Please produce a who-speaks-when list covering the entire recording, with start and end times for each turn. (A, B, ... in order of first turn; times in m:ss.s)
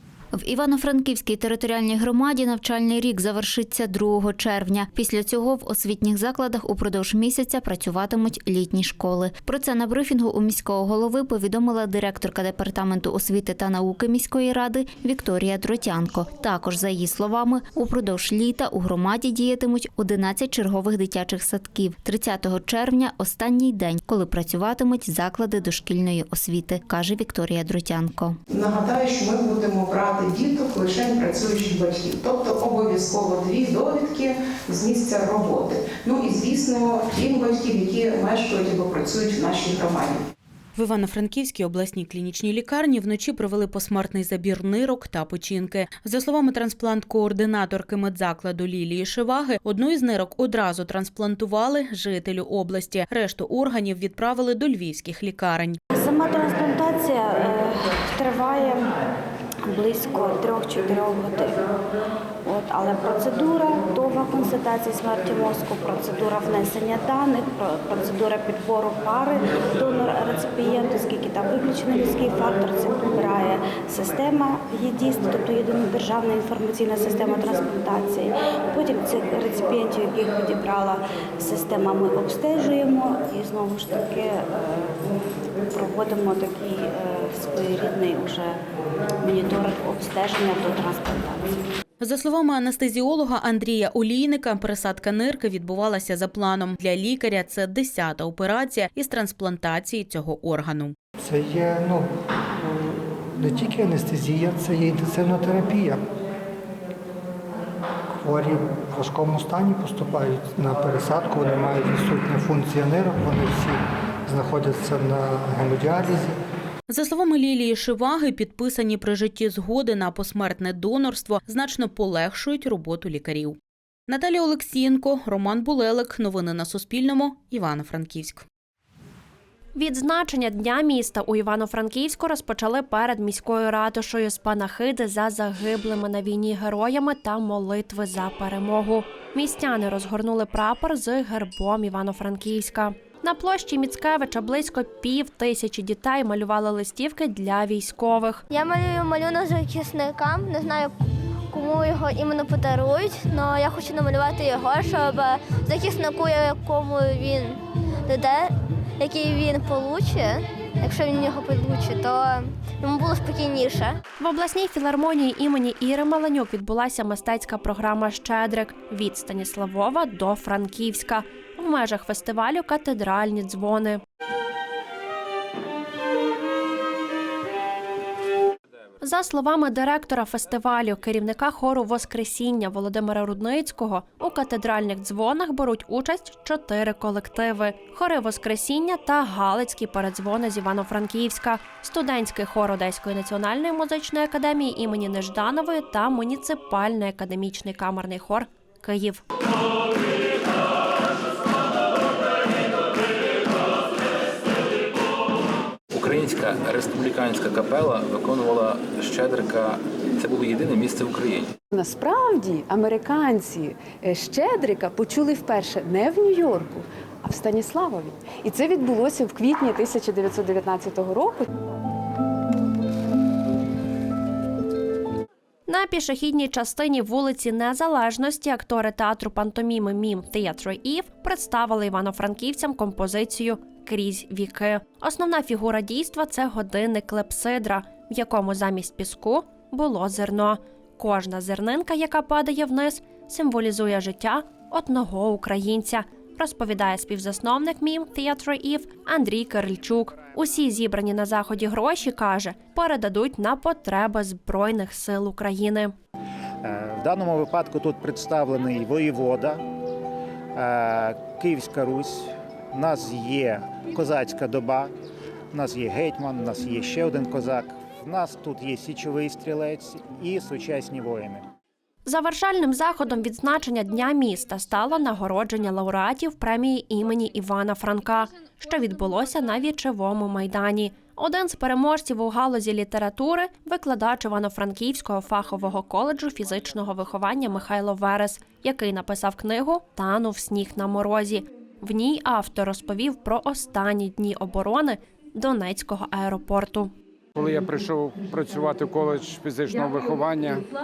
0:00.3-0:28.4 A
0:28.5-0:40.2 B
0:40.8-0:55.8 C
0:55.9-0:58.9 D
0:59.7-1:01.7 D
1:02.4-1:25.1 D
1:25.7-1:28.6 D
1:29.2-1:31.6 D
1:32.0-1:41.0 C
1:41.2-1:46.0 E
1:48.2-1:56.4 E
1:56.9-2:03.6 C
2:04.1-2:08.4 C
2:09.8-2:28.4 F
2:28.5-2:30.9 G
2:31.5-2:38.5 G
2:39.0-2:44.0 G
2:44.2-2:54.0 F
2:59.0-3:19.2 F
3:25.9-3:31.5 H
3:31.7-3:41.4 I
3:45.7-4:15.9 F
4:16.7-4:19.6 J
4:20.6-4:24.9 J
4:25.5-4:31.4 J
4:32.0-4:56.9 F
4:57.4-5:00.6 K